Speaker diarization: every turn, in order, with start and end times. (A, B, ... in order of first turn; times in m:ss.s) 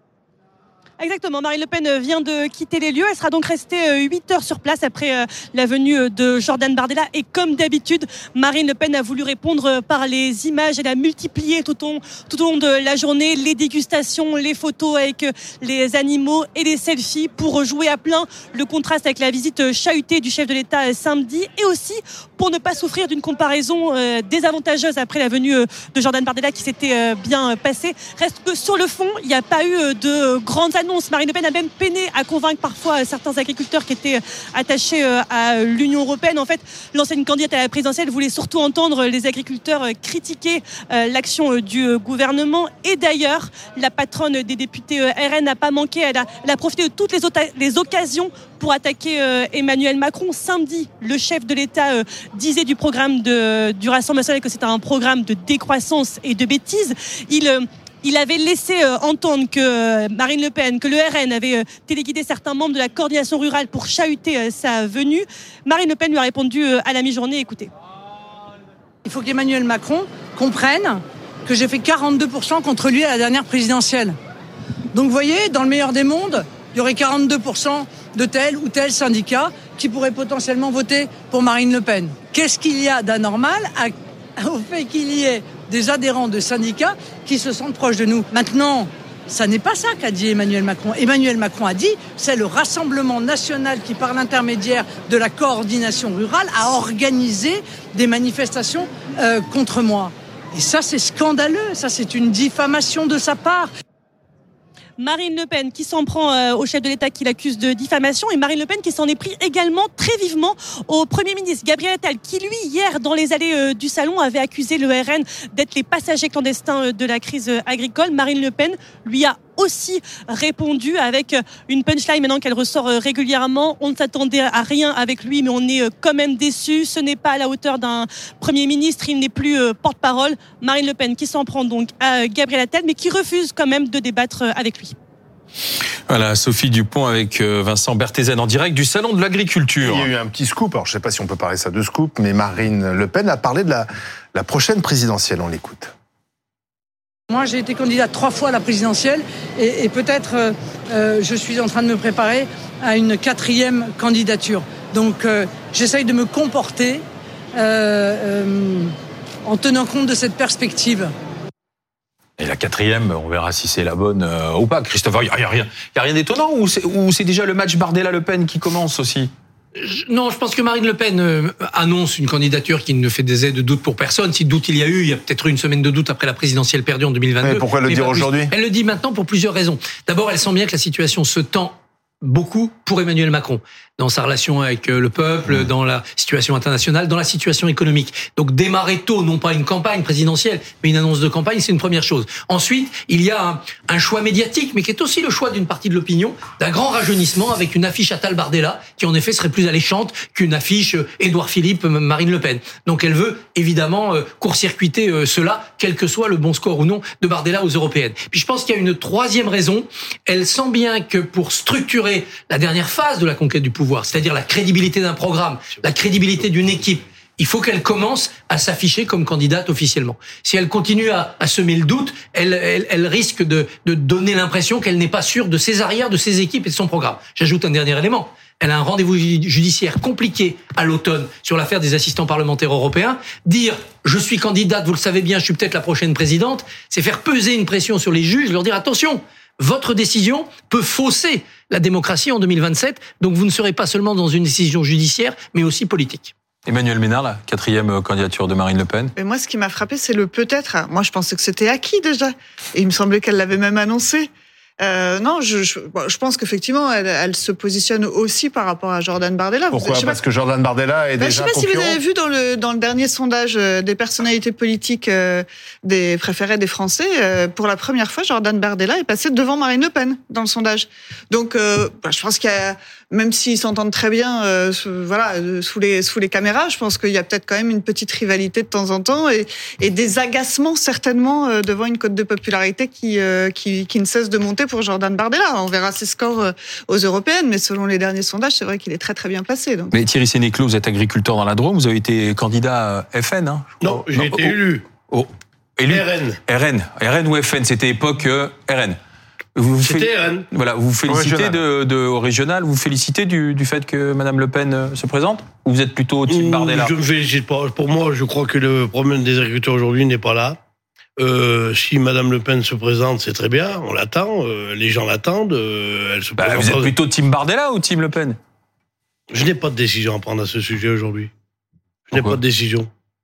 0:01.0-1:07.7 A
1:09.0-1:14.2 B
1:14.9-1:43.7 B
1:45.0-2:15.0 A
2:16.1-2:20.1 C
2:19.8-2:25.9 D
2:27.3-2:37.0 B
2:37.6-2:38.9 B
2:39.4-2:41.1 B
2:42.4-2:49.3 C
2:49.8-4:06.3 E
2:57.4-2:58.5 D
4:06.7-4:09.1 C
4:09.2-4:20.2 F
4:19.7-4:22.0 D
4:21.2-4:49.9 F
4:49.9-4:59.0 C
4:53.8-4:54.9 G
4:55.9-4:56.4 G
4:59.6-5:06.9 C
4:59.8-5:00.5 G
5:01.1-5:01.6 D
5:06.3-5:10.6 G
5:11.2-5:16.9 G
5:16.4-5:18.4 C
5:19.3-5:21.3 G
5:22.1-5:22.9 G
5:22.1-5:22.4 C